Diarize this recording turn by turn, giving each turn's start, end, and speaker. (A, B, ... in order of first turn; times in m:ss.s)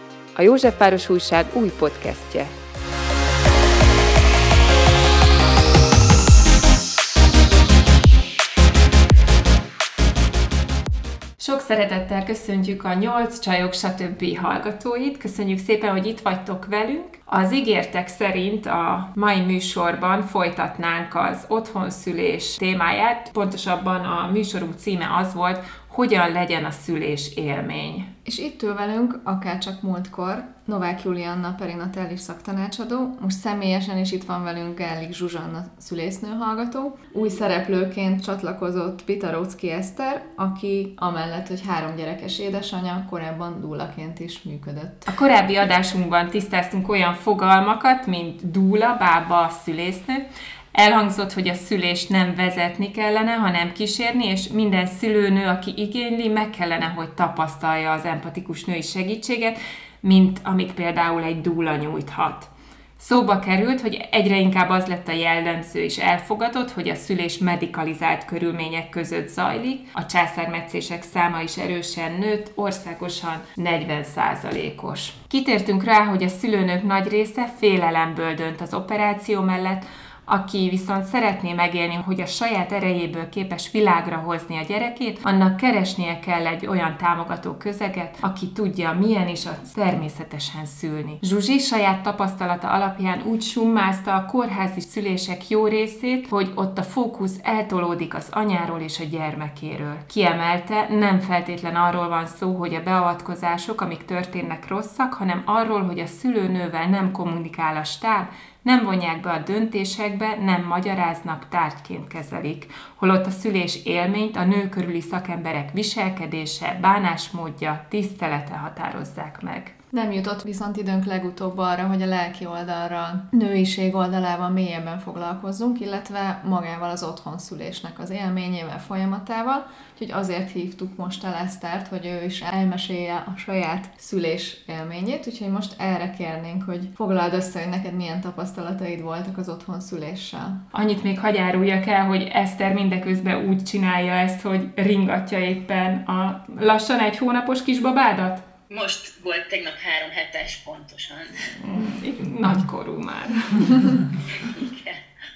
0:00.3-0:02.5 A
0:11.4-0:28.1 A
0:28.2-0:45.1 B
0:45.1-1:59.7 A
1:59.9-2:20.6 B
2:20.7-2:28.4 A
2:28.7-2:31.5 C
2:31.6-2:34.0 A
2:34.4-2:35.0 C